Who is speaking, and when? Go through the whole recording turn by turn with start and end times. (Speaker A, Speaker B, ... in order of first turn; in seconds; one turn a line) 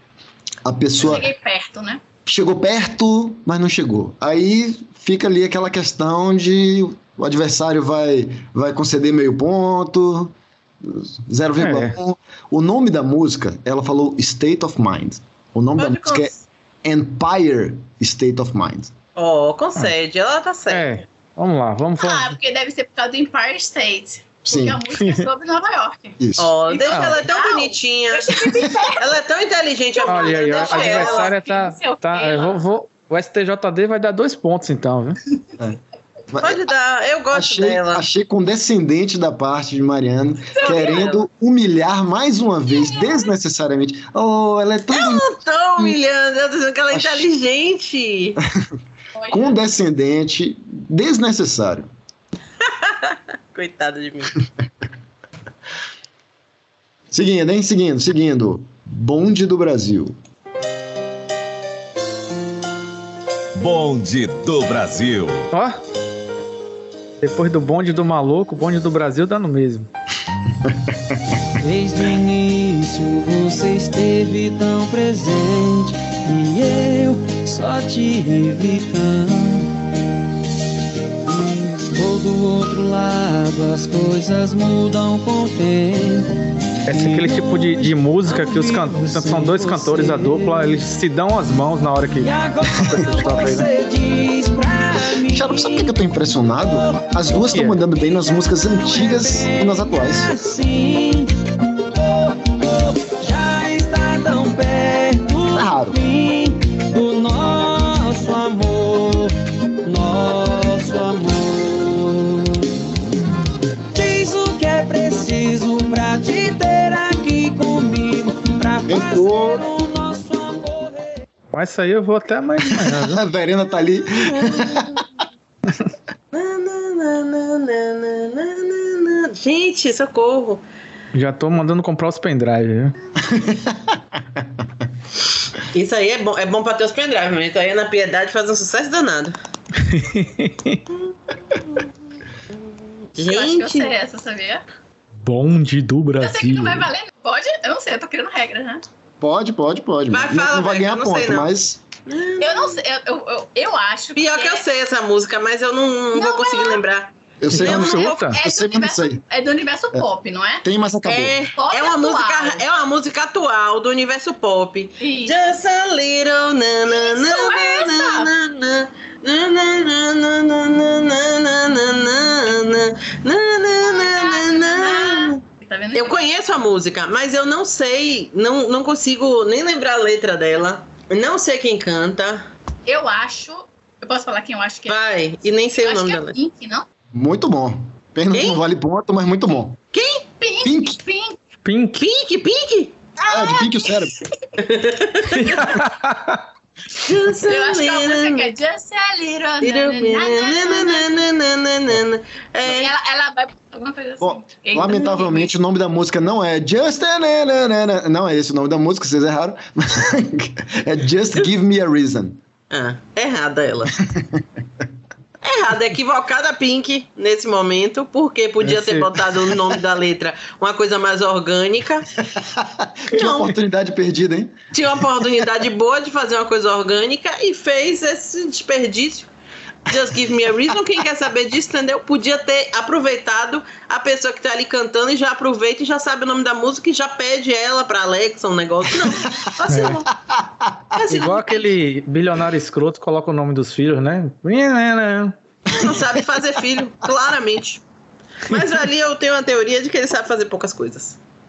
Speaker A: 0.6-1.3
Speaker B: 1.0-2.0
Speaker A: 2.2-16.3
Speaker C: 11.6-11.9
Speaker D: 15.8-16.4
Speaker A: 16.8-18.9
Speaker D: 19.1-21.0
Speaker C: 20.7-22.4
Speaker B: 22.0-29.1
Speaker A: 24.4-24.8
Speaker C: 25.0-25.3
Speaker A: 26.2-26.5
Speaker D: 26.4-31.3
Speaker C: 26.9-27.2
Speaker B: 29.9-32.6
Speaker C: 30.1-35.2
Speaker A: 36.3-36.6
Speaker D: 36.4-38.0
Speaker A: 37.3-46.0
Speaker B: 40.5-41.1
Speaker D: 40.6-41.2
Speaker B: 42.7-43.3
Speaker D: 44.9-48.4
Speaker A: 46.9-47.3
Speaker B: 49.1-49.5
Speaker A: 49.3-51.9
Speaker D: 52.6-54.4
Speaker A: 57.1-60.1
Speaker E: 63.5-65.5
Speaker C: 65.5-65.8
Speaker C: 67.2-69.9
Speaker F: 71.6-79.7
Speaker F: 81.2-90.8
Speaker C: 86.8-93.6
Speaker F: 92.2-97.5
Speaker A: 92.9-93.6
Speaker A: 95.3-100.3
Speaker C: 97.5-97.8
Speaker F: 98.1-101.3
Speaker F: 101.9-112.7
Speaker A: 105.5-106.0
Speaker F: 113.9-121.2
Speaker A: 118.9-119.6
Speaker C: 121.5-123.2
Speaker A: 122.8-125.0
Speaker D: 126.3-130.6
Speaker C: 131.1-132.9
Speaker A: 133.3-134.4
Speaker D: 135.7-139.3
Speaker C: 139.8-140.8
Speaker D: 143.1-143.9
Speaker B: 143.2-144.6
Speaker C: 145.2-146.9
Speaker B: 146.2-148.8
Speaker A: 149.2-151.8
Speaker D: 150.1-151.5
Speaker D: 152.1-152.8
Speaker B: 152.4-154.6
Speaker D: 154.2-158.3
Speaker B: 156.1-156.8
Speaker A: 157.4-159.2
Speaker C: 157.5-158.4
Speaker B: 158.3-160.6
Speaker A: 160.6-161.4
Speaker D: 161.0-175.4
Speaker B: 161.5-162.6
Speaker B: 165.0-165.5
Speaker B: 166.9-168.3
Speaker B: 173.8-176.2
Speaker D: 175.9-182.5
Speaker B: 182.8-185.0
Speaker D: 184.9-186.4
Speaker B: 185.8-186.8
Speaker A: 187.1-189.8
Speaker D: 188.3-188.6
Speaker D: 189.9-190.2
Speaker B: 190.4-191.4
Speaker A: 190.6-191.0
Speaker C: 191.6-192.0
Speaker D: 192.0-192.9
Speaker B: 193.2-194.1
Speaker A: 193.3-194.2
Speaker D: 194.6-195.5
Speaker C: 195.3-196.4
Speaker D: 197.0-198.5
Speaker B: 197.4-201.1
Speaker D: 199.6-202.9
Speaker B: 202.6-205.5
Speaker A: 204.2-212.4
Speaker D: 212.7-213.9
Speaker A: 214.1-214.4
Speaker D: 215.4-222.1
Speaker A: 222.4-224.6
Speaker D: 223.1-223.5
Speaker D: 224.7-229.3
Speaker D: 229.9-240.1
Speaker C: 239.7-240.0
Speaker D: 240.9-241.7
Speaker C: 241.1-245.3
Speaker D: 245.7-247.8
Speaker D: 248.5-251.2